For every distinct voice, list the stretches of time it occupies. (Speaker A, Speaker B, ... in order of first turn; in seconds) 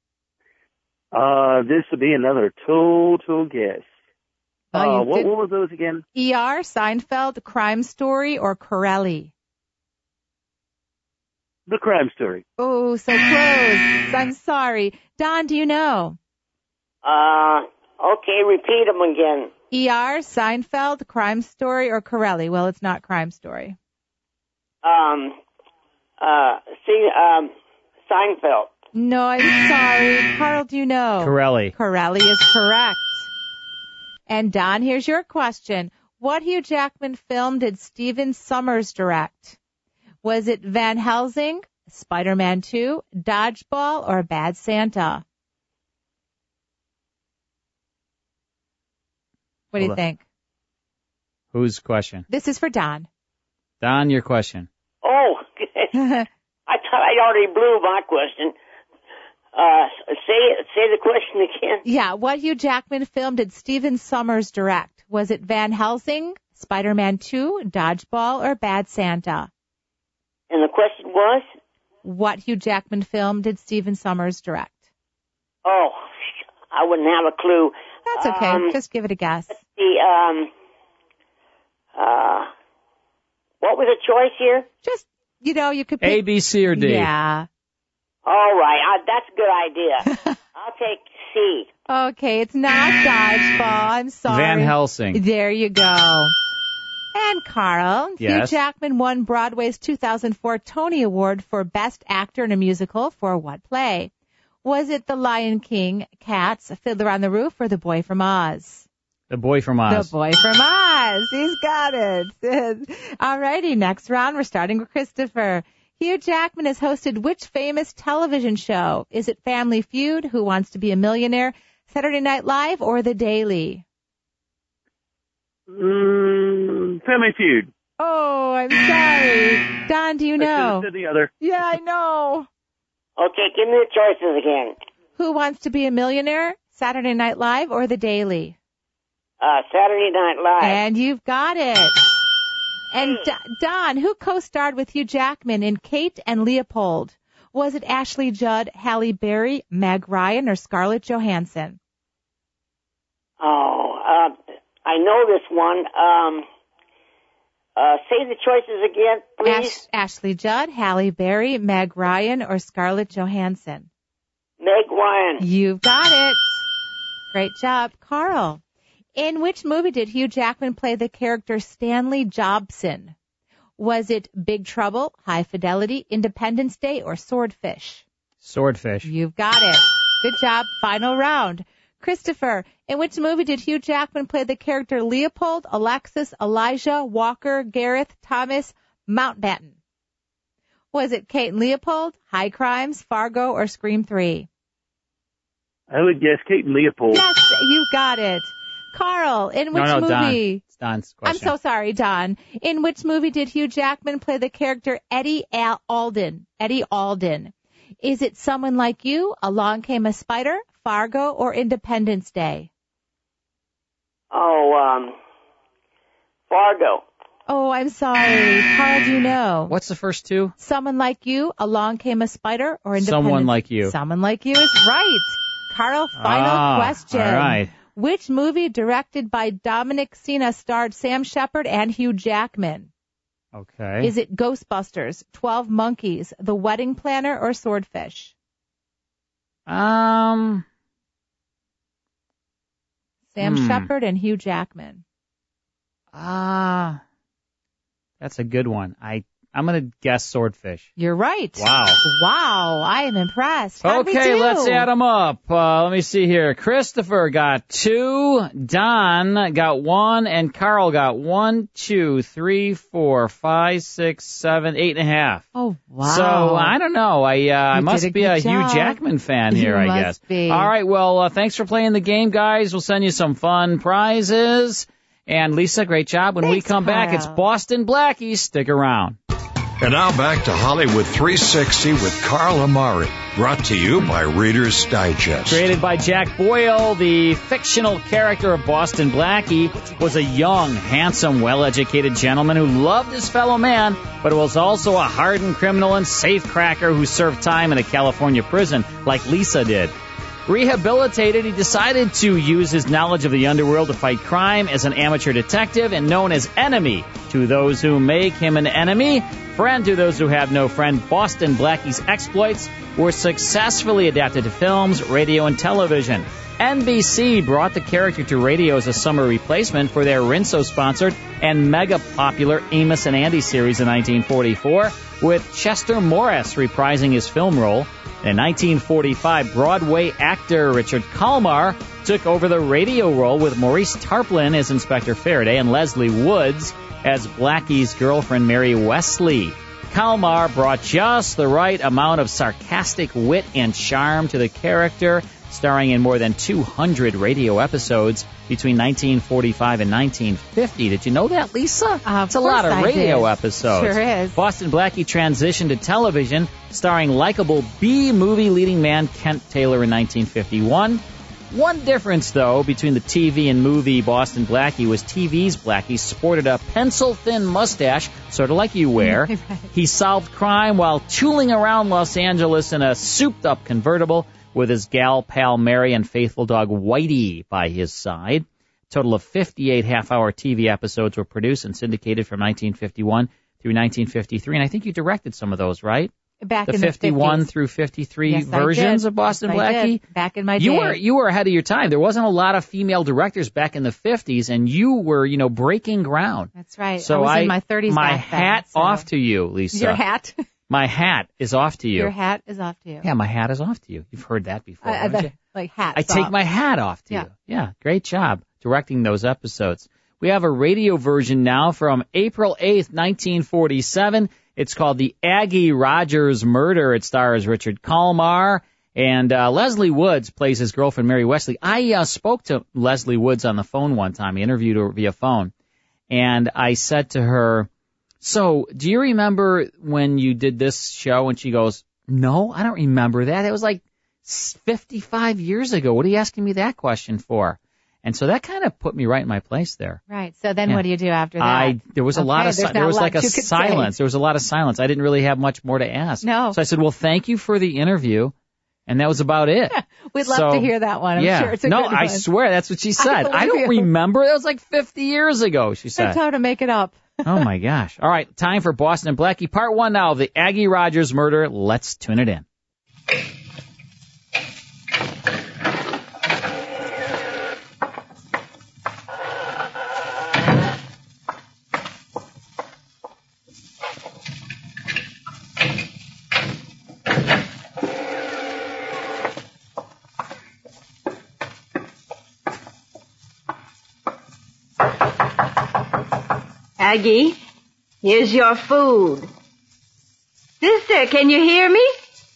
Speaker A: 1.1-3.9, 4.7-6.0, 11.7-12.4, 125.7-127.7, 130.4-131.3, 195.9-197.2
Speaker B: 4.7-5.3, 6.1-9.3, 12.6-16.2, 19.7-23.8, 28.9-33.2, 34.3-39.6, 40.2-45.2, 49.7-50.2, 52.3-53.1, 56.0-56.2, 61.8-69.5, 72.0-74.8, 78.1-79.5, 84.8-87.5, 91.9-96.3, 97.1-104.1, 104.6-108.8, 109.9-123.8, 128.0-130.9, 131.4-132.5, 135.2-138.6, 140.6-142.0, 142.9-151.8, 159.4-163.9, 165.4-166.4, 167.3-168.6, 169.2-173.1, 173.8-178.0, 179.0-189.7, 190.9-194.5, 197.1-200.6, 201.2-212.7, 217.5-219.7, 220.6-232.9, 234.0-238.3, 243.3-245.0, 251.0-254.9, 265.5-266.7, 267.7-269.0, 269.5-270.7, 276.4-277.4, 352.0-354.4, 369.0-369.7, 386.4-387.5, 388.3-391.0, 396.6-399.1, 399.7-400.4, 401.9-403.0, 404.8-406.3, 440.1-443.9, 446.2-446.6, 449.7-452.2, 453.0-453.9, 456.0-457.4
Speaker C: 17.0-19.5, 24.8-25.4, 26.2-27.5, 28.1-28.7, 55.0-55.9, 56.7-58.5, 59.5-61.8, 70.5-71.5, 75.6-76.0, 76.7-78.7, 79.6-80.5, 82.0-82.5, 83.6-84.7, 88.2-91.7, 133.2-134.7, 139.4-140.8, 153.4-156.4, 157.8-159.7, 164.6-165.4, 214.3-215.1, 216.5-217.0
Speaker D: 31.2-31.7, 51.5-52.2, 53.8-54.7, 86.0-87.1, 94.3-95.2, 98.2-98.6, 109.3-110.1, 178.4-179.1, 199.7-201.5, 219.7-220.5, 223.0-223.9, 226.2-227.7, 233.5-234.1, 239.7-240.6, 243.4-243.9, 246.1-247.0, 248.2-250.9, 251.6-252.0, 253.8-265.5, 266.0-279.2, 285.5-299.9, 300.5-386.1, 386.6-390.0, 390.6-400.0, 400.7-402.1, 403.0-405.3, 405.9-425.5, 426.1-427.7, 428.2-440.0, 441.4-448.3, 448.9-456.2, 457.2-462.4
Speaker E: 279.8-285.7
Speaker F: 486.8-487.4, 488.0-489.2, 490.6-491.9